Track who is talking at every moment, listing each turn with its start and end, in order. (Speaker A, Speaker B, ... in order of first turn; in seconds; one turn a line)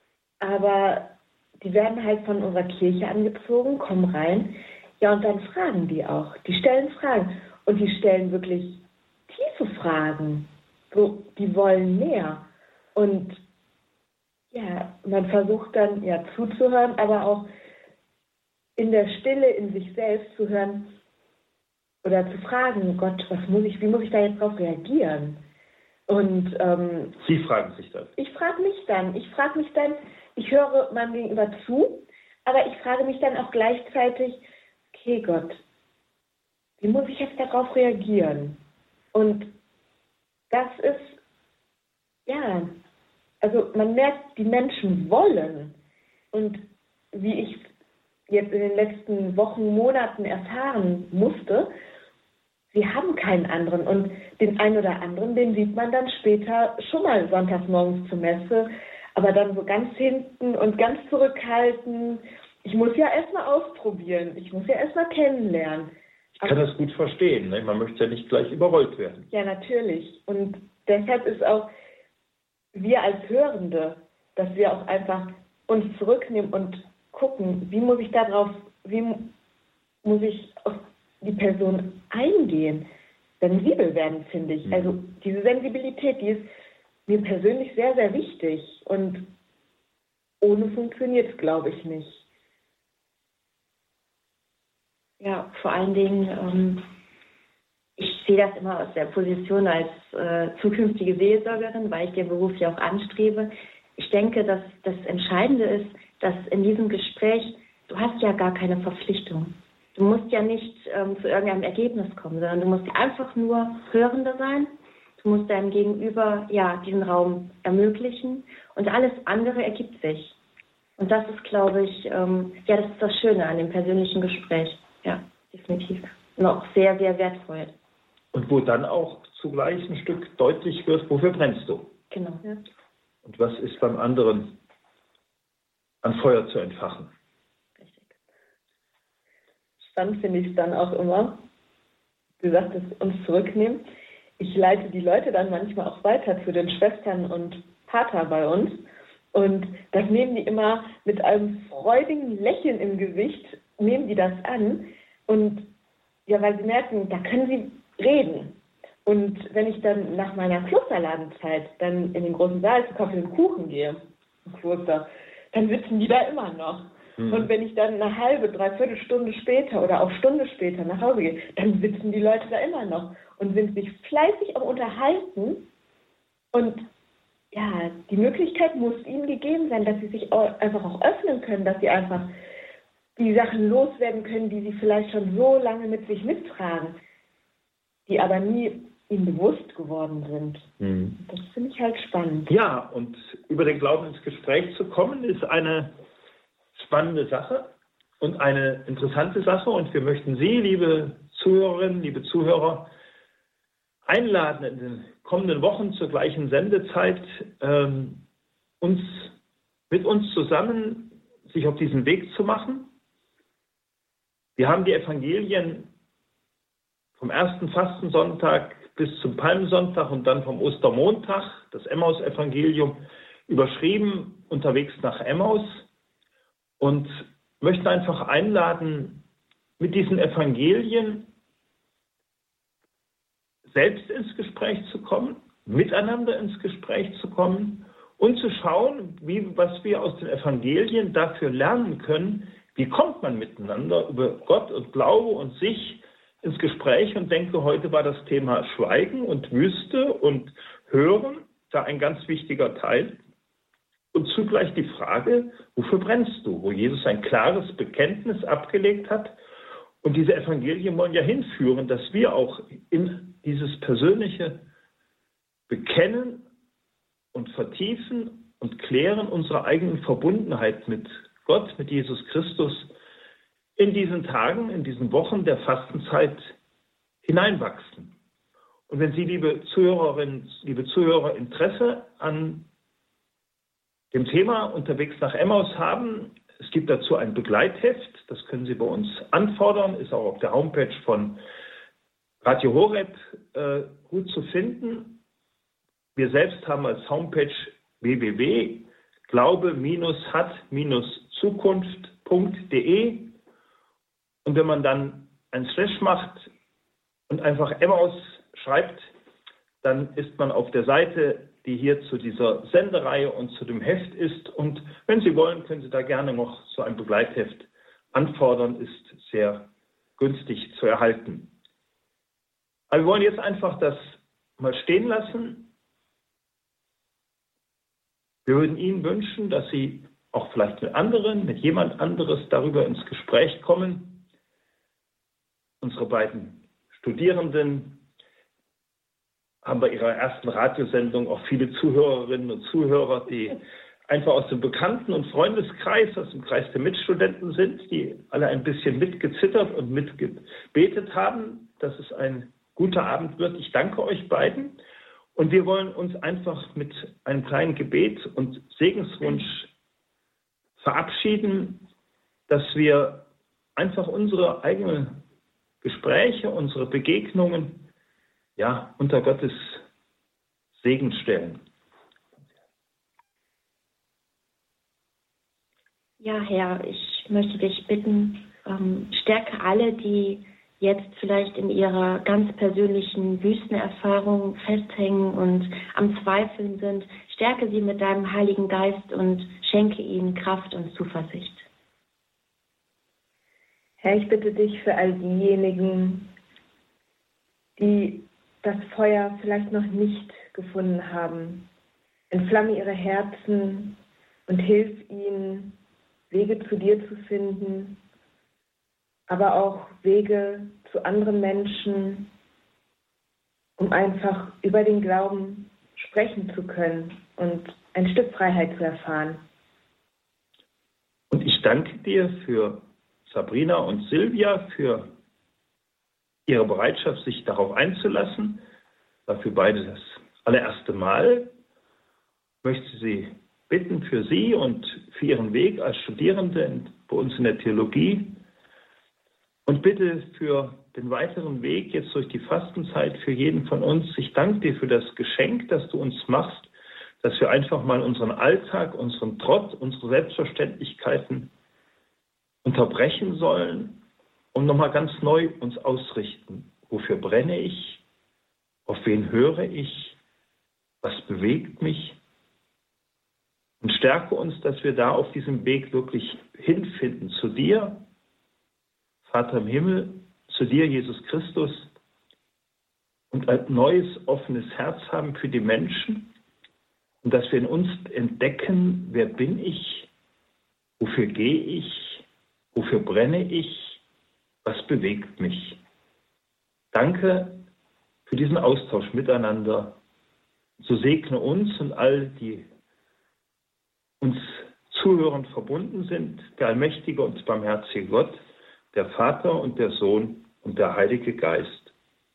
Speaker A: 0.4-13.4
Speaker A: 14.5-17.5
Speaker A: 18.8-20.9
Speaker A: 22.0-25.4
Speaker A: 26.1-27.1
Speaker B: 27.2-28.1
Speaker A: 28.2-35.6
Speaker A: 36.8-38.6
Speaker A: 39.1-39.5
Speaker A: 40.5-41.2
Speaker A: 42.3-42.7
Speaker A: 43.4-45.8
Speaker A: 46.3-47.7
Speaker A: 48.3-51.7
Speaker A: 52.7-66.6
Speaker B: 66.4-69.3
Speaker A: 69.3-71.7
Speaker A: 72.7-79.3
Speaker A: 80.0-82.9
Speaker A: 83.4-86.5
Speaker B: 84.7-85.0
Speaker A: 87.1-89.3
Speaker A: 90.4-92.2
Speaker C: 95.2-96.8
Speaker C: 98.0-120.4
Speaker C: 121.0-127.7
Speaker B: 128.3-131.9
Speaker C: 132.1-132.4
Speaker B: 133.2-134.6
Speaker B: 136.0-137.1
Speaker C: 137.8-138.2
Speaker A: 139.8-141.4
Speaker A: 142.4-143.8
Speaker A: 144.4-155.7
Speaker A: 156.3-175.7
Speaker B: 167.2-167.5
Speaker A: 176.5-176.9
Speaker A: 177.5-182.3
Speaker A: 183.2-187.0
Speaker A: 188.1-192.5
Speaker B: 190.8-191.2
Speaker B: 192.5-195.9
Speaker B: 196.8-202.9
Speaker B: 204.1-208.2
Speaker B: 208.8-209.3
Speaker B: 209.9-212.9
Speaker B: 214.6-215.9
Speaker B: 217.2-225.9
Speaker B: 226.8-229.2
Speaker B: 229.8-231.3
Speaker B: 233.7-253.2
Speaker B: 254.1-259.4
Speaker B: 260.0-264.6
Speaker B: 265.7-266.4
Speaker B: 267.3-272.9
Speaker B: 273.8-276.5
Speaker B: 277.2-278.1
Speaker B: 278.9-282.7
Speaker B: 284.1-291.4
Speaker B: 292.4-295.2
Speaker B: 296.1-303.3
Speaker B: 304.4-306.5
Speaker B: 307.3-309.1
Speaker B: 309.8-321.5
Speaker B: 322.9-325.7
Speaker B: 328.4-334.2
Speaker B: 335.8-338.0
Speaker B: 339.6-354.8
Speaker B: 355.4-359.7
Speaker B: 360.8-361.9
Speaker B: 362.5-365.2
Speaker B: 365.8-367.9
Speaker B: 368.6-369.8
Speaker B: 370.8-371.6
Speaker C: 376.2-391.6
Speaker A: 394.0-396.3
Speaker A: 397.8-401.7
Speaker A: 402.3-405.8
Speaker A: 406.3-408.0
Speaker A: 409.3-412.3
Speaker A: 413.8-419.4
Speaker B: 421.3-425.1
Speaker B: 426.4-428.6
Speaker B: 429.3-431.5
Speaker B: 432.6-438.4
Speaker B: 439.6-451.5
Speaker B: 452.6-458.0
Speaker B: 458.9-460.2
Speaker B: 461.0-462.2
Speaker B: 463.8-468.0
Speaker B: 469.2-471.9
Speaker B: 473.3-476.3
Speaker B: 477.2-480.1
Speaker B: 481.0-484.0
Speaker B: 484.6-485.8
Speaker B: 486.9-487.6
Speaker B: 488.3-490.0
Speaker B: 490.8-492.7
Speaker B: 494.2-498.4
Speaker B: 498.9-501.9